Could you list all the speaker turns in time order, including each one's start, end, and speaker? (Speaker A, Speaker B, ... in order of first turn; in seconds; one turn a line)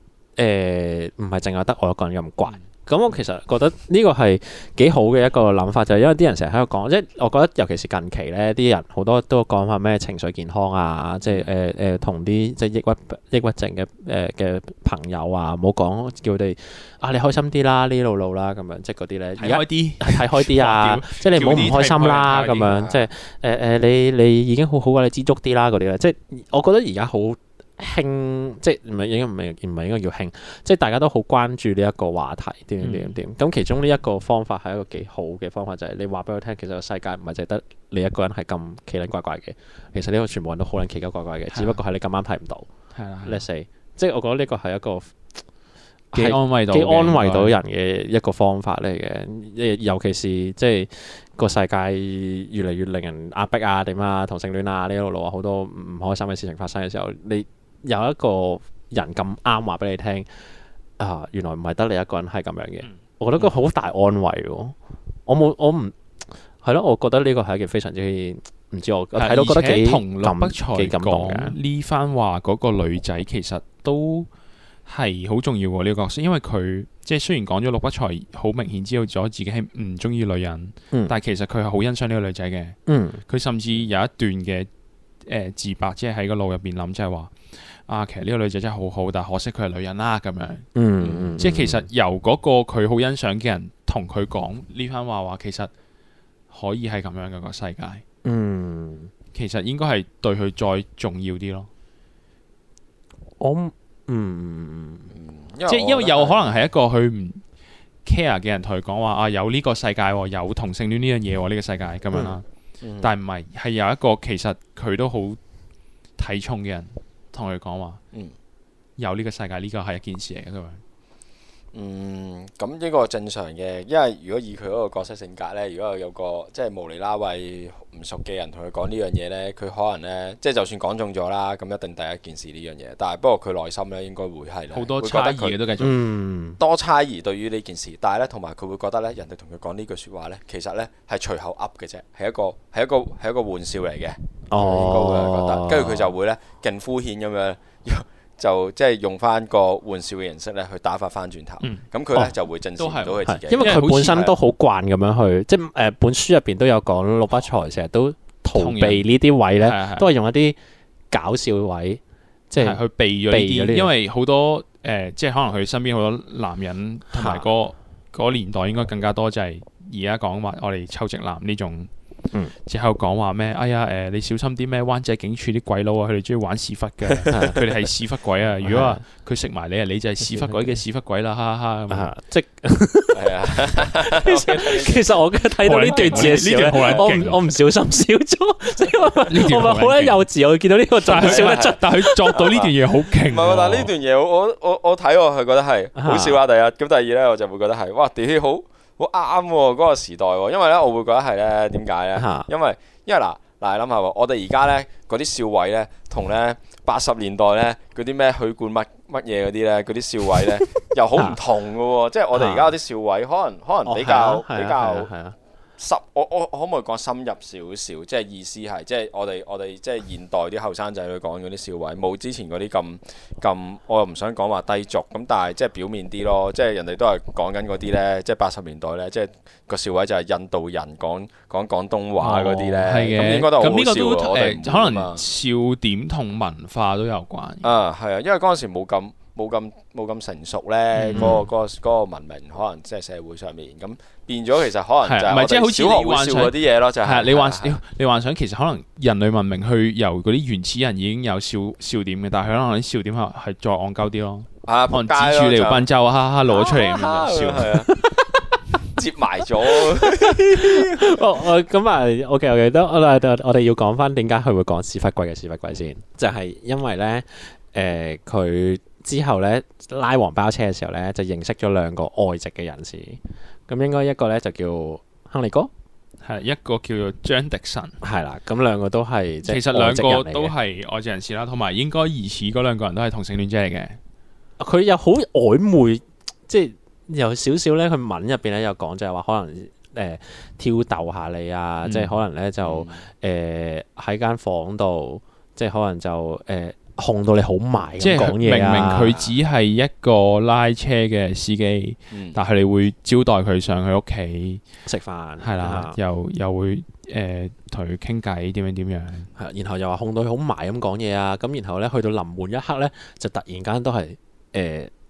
Speaker A: 0.4-42.7
Speaker B: 19.4-22.8
Speaker C: 22.7-23.0
Speaker B: 32.8-33.1
Speaker B: 41.5-41.8
Speaker B: 42.9-43.4
Speaker A: 43.2-45.1
Speaker A: 46.1-60.3
Speaker B: 46.1-47.5
Speaker A: 61.0-64.7
Speaker A: 65.3-66.0
Speaker A: 66.6-71.5
Speaker B: 69.1-74.3
Speaker B: 74.9-84.7
Speaker A: 82.9-83.2
Speaker B: 85.2-87.3
Speaker B: 87.9-90.7
Speaker A: 90.7-91.8
Speaker B: 91.4-95.7
Speaker B: 96.5-98.0
Speaker A: 98.2-99.1
Speaker B: 99.3-101.7
Speaker A: 103.4-105.1
Speaker C: 105.1-106.5
Speaker B: 105.7-107.4
Speaker B: 108.0-112.4
Speaker A: 112.1-112.4
Speaker C: 112.8-113.1
Speaker B: 113.0-115.4
Speaker B: 116.2-118.0
Speaker B: 119.0-120.8
Speaker C: 121.7-135.6
Speaker B: 134.7-136.0
Speaker A: 135.8-136.6
Speaker C: 136.6-154.2
Speaker A: 144.5-146.1
Speaker B: 152.8-154.3
Speaker A: 153.2-160.6
Speaker B: 158.5-160.1
Speaker A: 161.1-163.9
Speaker B: 162.6-171.9
Speaker A: 167.1-167.4
Speaker B: 172.7-182.1
Speaker C: 177.2-177.5
Speaker A: 177.3-177.6
Speaker A: 178.6-179.0
Speaker A: 180.3-180.6
Speaker A: 181.9-192.3
Speaker C: 183.1-185.1
Speaker B: 185.6-187.4
Speaker C: 185.9-187.1
Speaker B: 189.3-190.2
Speaker B: 191.0-193.9
Speaker C: 191.1-215.1
Speaker A: 195.9-196.4
Speaker A: 202.2-202.5
Speaker A: 212.3-212.7
Speaker A: 213.8-215.3
Speaker C: 215.8-235.2
Speaker B: 232.2-237.7
Speaker C: 237.6-247.8
Speaker B: 240.9-241.4
Speaker A: 241.1-241.4
Speaker B: 245.0-257.9
Speaker C: 254.7-255.9
Speaker C: 256.5-258.1
Speaker C: 258.9-261.2
Speaker A: 259.9-275.7
Speaker B: 276.2-278.0
Speaker A: 278.0-280.5
Speaker B: 279.4-284.0
Speaker A: 284.6-299.2
Speaker B: 291.8-292.2
Speaker C: 292.6-293.0
Speaker B: 298.0-304.6
Speaker C: 302.1-302.4
Speaker A: 304.9-306.0
Speaker B: 305.4-309.3
Speaker A: 309.4-314.9